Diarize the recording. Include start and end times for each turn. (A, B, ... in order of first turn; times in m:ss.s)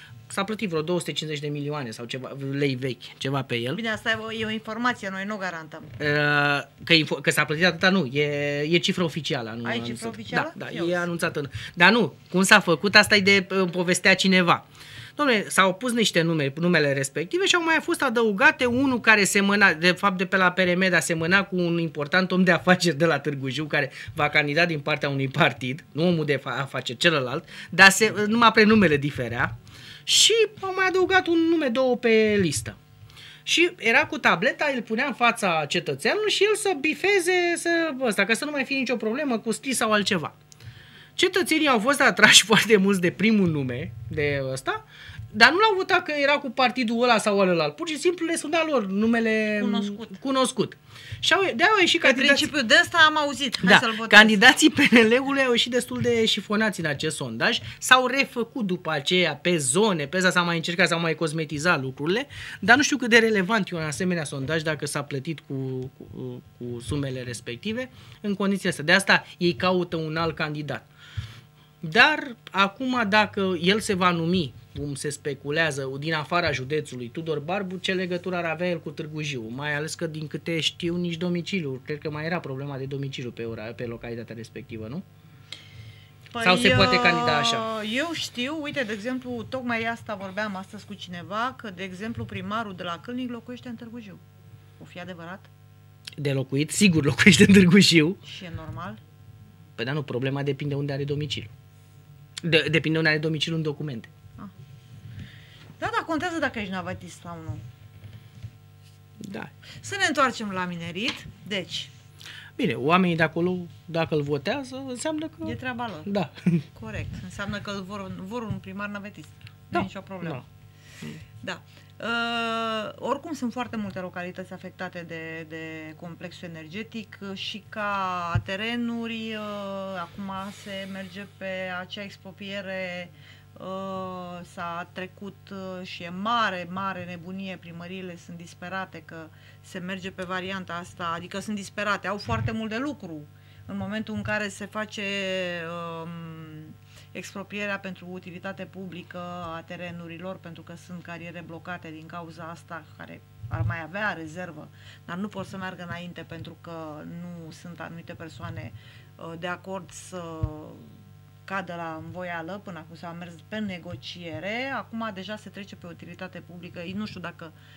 0:00.3-0:03.8 A
0:03.7-0:05.9 B
0:06.0-0:29.5 A
0:09.6-0:11.1 B
0:30.0-0:32.8 A
0:33.4-0:40.3 A
0:41.2-0:52.5 A
0:49.6-0:50.2 B
0:52.0-0:54.4 B
0:53.6-1:10.9 A
1:11.8-1:25.0 A
1:26.3-1:34.2 B
1:26.4-1:27.7 A
1:34.8-1:35.5 B
1:36.2-1:38.2 A
1:38.2-1:39.0 B
1:39.8-1:41.5 A
1:42.4-1:44.1 A
1:45.8-1:47.6 B
1:49.2-1:49.5 A
1:49.8-1:51.9 B
1:52.6-1:55.5 A
1:55.4-1:56.1 B
1:56.1-1:56.6 A
1:56.7-2:00.4 B
1:59.7-2:00.4 A
2:01.4-2:40.8 B
2:41.4-2:47.5 B